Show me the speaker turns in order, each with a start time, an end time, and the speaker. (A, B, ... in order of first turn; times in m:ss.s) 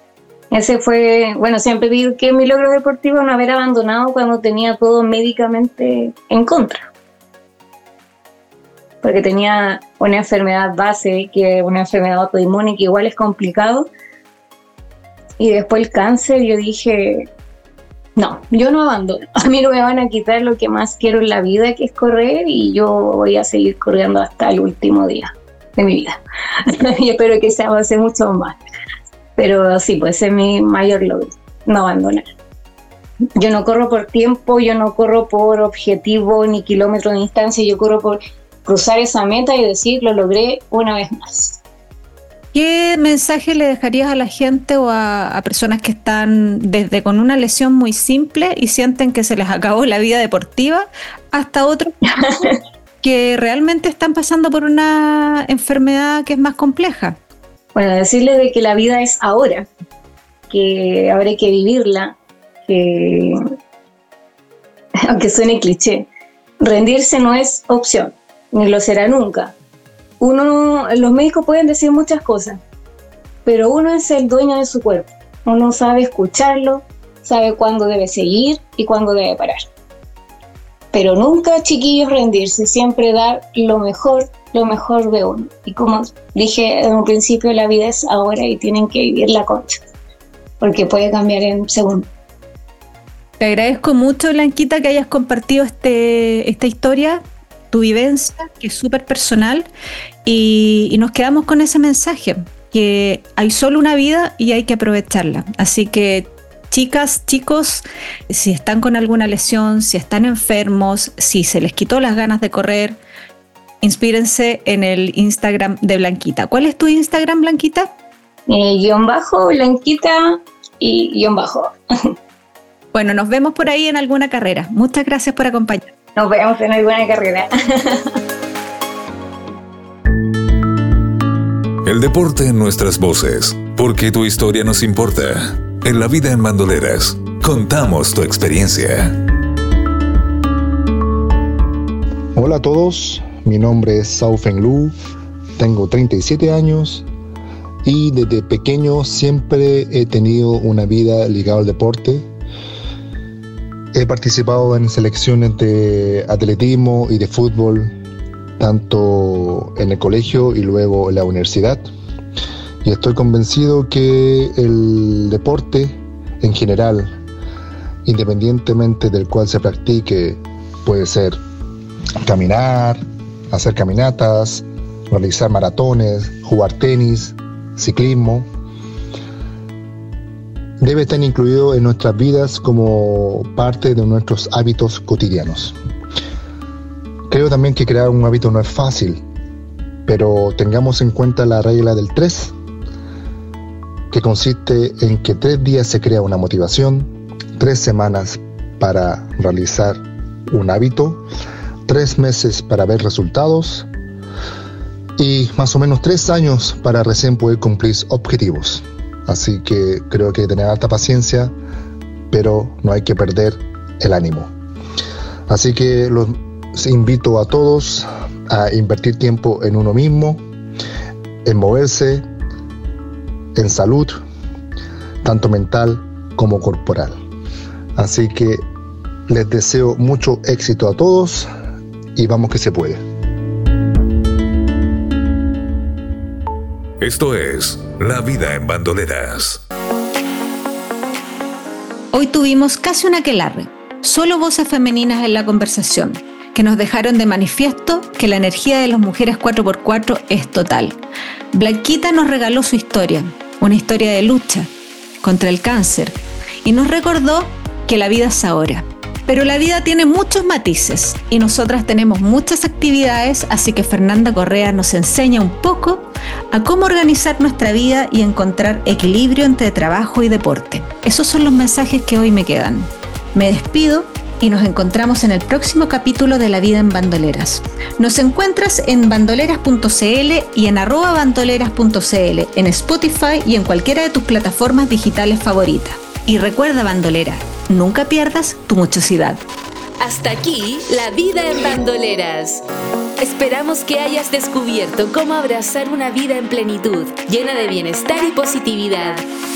0:00.5-0:06.8 A
0:09.0-0:13.9 A
0:15.4-0:17.3 A
0:18.2-0:28.6 A
0:29.4-0:32.2 A
0:33.4-0:41.6 A
0:42.5-0:51.9 B
0:52.2-0:52.6 A
0:53.0-0:57.2 B
0:57.7-0:59.7 A
1:00.5-1:03.4 A
1:05.0-1:06.1 A
1:06.6-1:09.5 A
1:10.2-1:12.6 A
1:13.4-1:19.6 A
1:20.9-1:29.8 A
1:30.6-1:32.1 A
1:33.4-1:39.7 B
1:40.2-1:53.0 B
1:53.8-1:57.9 B
1:58.5-2:02.1 A
2:02.9-2:05.9 B
2:06.1-2:08.2 A
2:11.8-2:19.1 C
2:22.3-2:24.9 D
2:25.6-2:27.0 D
2:27.8-2:32.3 D
2:33.9-2:37.9 D
2:38.6-2:41.8 D
2:42.8-2:47.1 D
2:48.0-2:51.4 D
2:52.2-2:53.0 D
2:53.5-2:58.5 D
3:00.8-3:05.8 D
3:07.3-3:09.2 D
3:10.0-3:12.5 D
3:14.1-3:21.2 D
3:21.9-3:23.9 D
3:25.2-3:31.5 D
3:32.3-3:34.5 D
3:35.5-3:40.4 D
3:41.4-3:42.2 D
3:43.6-3:44.2 D
3:45.2-3:47.2 D
3:48.0-3:48.6 D
3:49.3-3:51.5 D
3:52.2-3:53.0 D
3:57.0-3:59.6 C
4:02.1-4:11.0 B
4:11.5-4:14.7 B
4:15.2-4:49.4 B
4:50.0-4:52.6 E
4:53.2-4:59.2 E